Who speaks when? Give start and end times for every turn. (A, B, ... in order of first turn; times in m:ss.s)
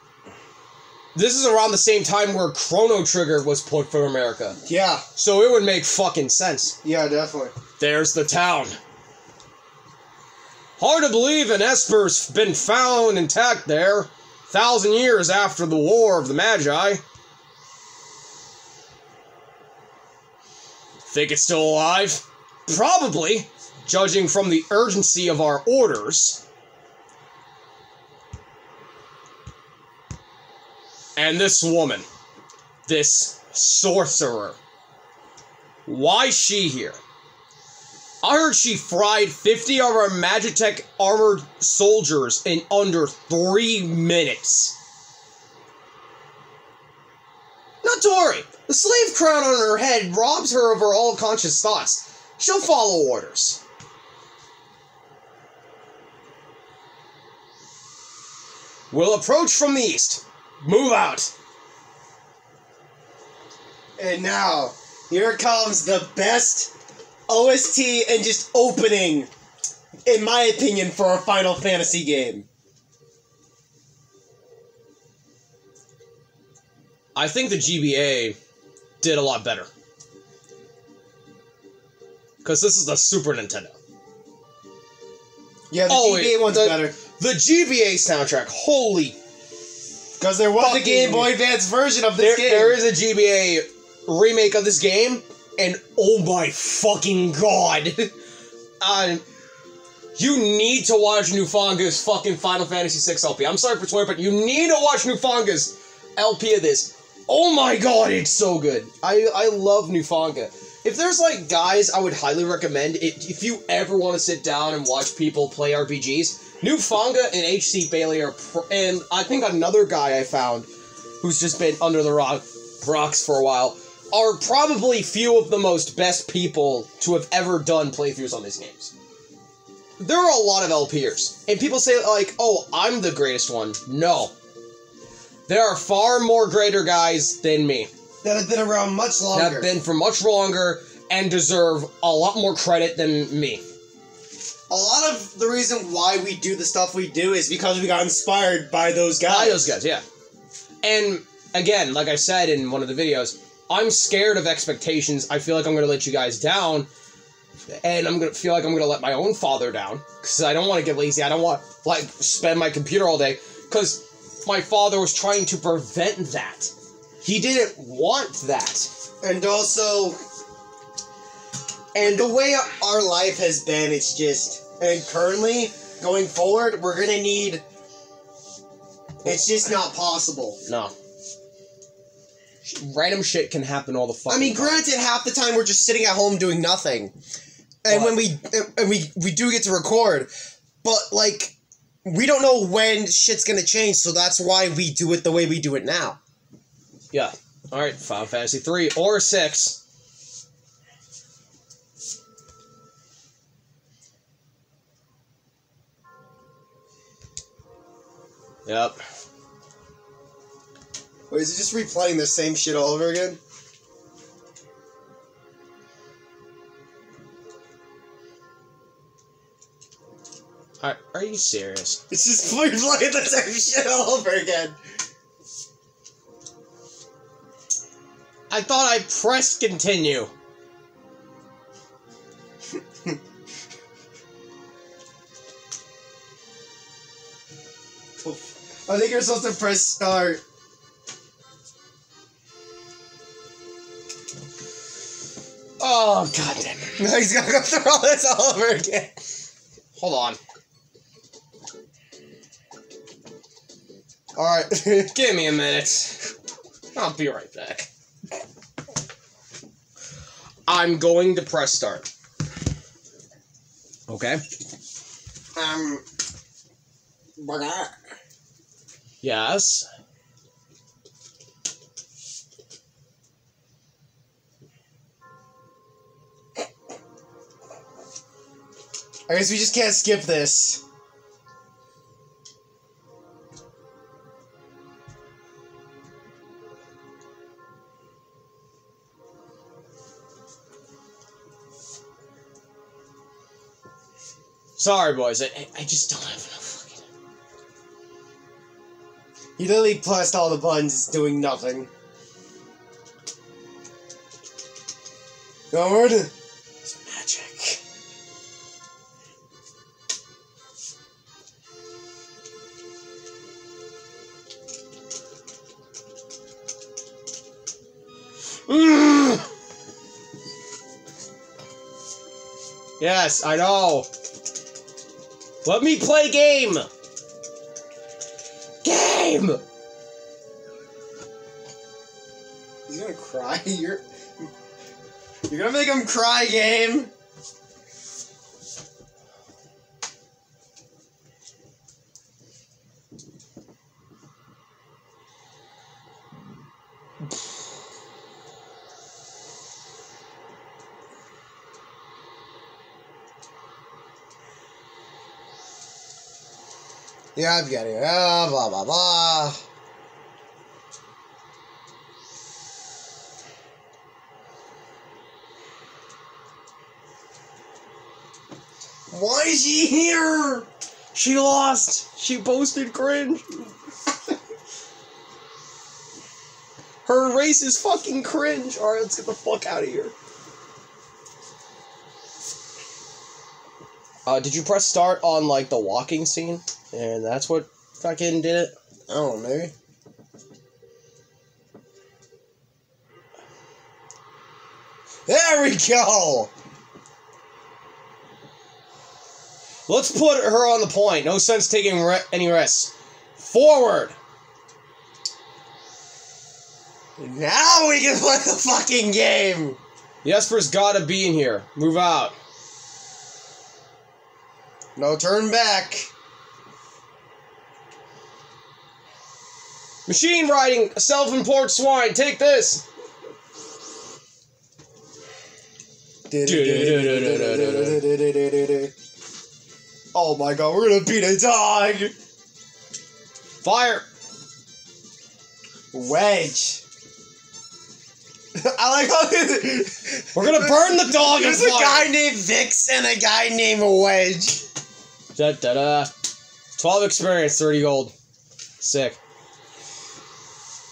0:01.2-0:04.6 A
0:04.6-0:05.0 B
0:05.2-0:06.8 A
0:06.8-0:07.5 B
0:07.8-0:08.8 A
0:10.8-0:17.0 A
0:21.1-0:26.4 A
0:31.2-0:32.0 A
0:32.9-0:34.6 A
0:35.9-0:37.0 A
0:38.2-0:44.8 A
0:47.8-0:53.6 A
0:58.9-1:01.3 A
1:04.0-1:06.7 B
1:07.3-1:09.3 B
1:10.1-1:12.5 B
1:17.2-1:18.4 A
1:19.0-1:19.7 A
1:22.4-1:23.8 A
1:25.7-1:27.0 B
1:25.9-1:29.2 A
1:30.2-1:32.8 B
1:30.6-1:31.3 A
1:32.2-1:38.1 A
1:38.8-1:39.2 A
1:40.2-2:00.7 A
2:01.2-2:08.9 A
2:10.0-2:14.3 A
2:15.5-2:17.9 A
2:18.2-2:19.7 B
2:19.3-2:23.6 A
2:24.7-2:29.7 B
2:29.3-2:30.0 A
2:30.8-2:36.9 A
2:37.7-2:48.9 A
2:49.2-2:50.2 B
2:52.0-2:52.3 A
2:52.0-2:57.6 B
2:59.2-2:59.8 A
2:59.2-3:00.6 B
3:00.7-3:00.9 A
3:02.6-3:04.8 A
3:04.3-3:07.1 B
3:07.8-3:10.3 B
3:07.9-3:08.2 A
3:10.8-3:16.2 B
3:17.1-3:19.8 A
3:28.7-3:29.0 A
3:31.3-3:33.4 B
3:40.8-3:42.0 A
3:42.1-3:44.8 B
3:48.5-3:50.3 A
3:58.2-4:00.4 B
4:05.8-4:07.0 A
4:07.0-4:09.1 B
4:10.0-4:10.4 A
4:14.4-4:16.3 A
4:16.9-4:17.9 A
4:20.7-4:22.1 A
4:24.1-4:24.4 A
4:25.6-4:26.0 B
4:27.4-4:28.0 B
4:29.2-4:29.9 A
4:39.3-4:40.8 B
4:54.8-4:57.0 A
4:59.6-5:01.9 B
5:05.7-5:06.3 B
5:06.8-5:07.8 B
5:18.7-5:19.5 A
5:23.0-5:24.1 A
5:25.6-5:26.9 A
5:28.8-5:29.6 A
5:32.9-5:34.5 B
5:35.5-5:37.1 B
5:57.4-5:59.6 B
6:09.1-6:10.7 B
6:11.1-6:13.7 A
6:17.0-6:20.2 A
6:24.3-6:28.7 A
6:29.1-6:29.7 B
6:35.3-6:36.5 B
6:39.9-6:44.2 A
6:47.2-6:49.8 B
6:50.2-6:52.4 A
6:55.0-6:56.1 B
7:00.1-7:02.8 A
7:06.3-7:08.9 B
7:06.4-7:08.0 A
7:10.1-7:12.1 B
7:13.6-7:14.1 A
7:15.9-7:16.8 B
7:18.6-7:24.6 B
7:20.3-7:22.1 A
7:25.3-7:26.1 A
7:26.8-7:28.1 A
7:28.8-7:29.2 A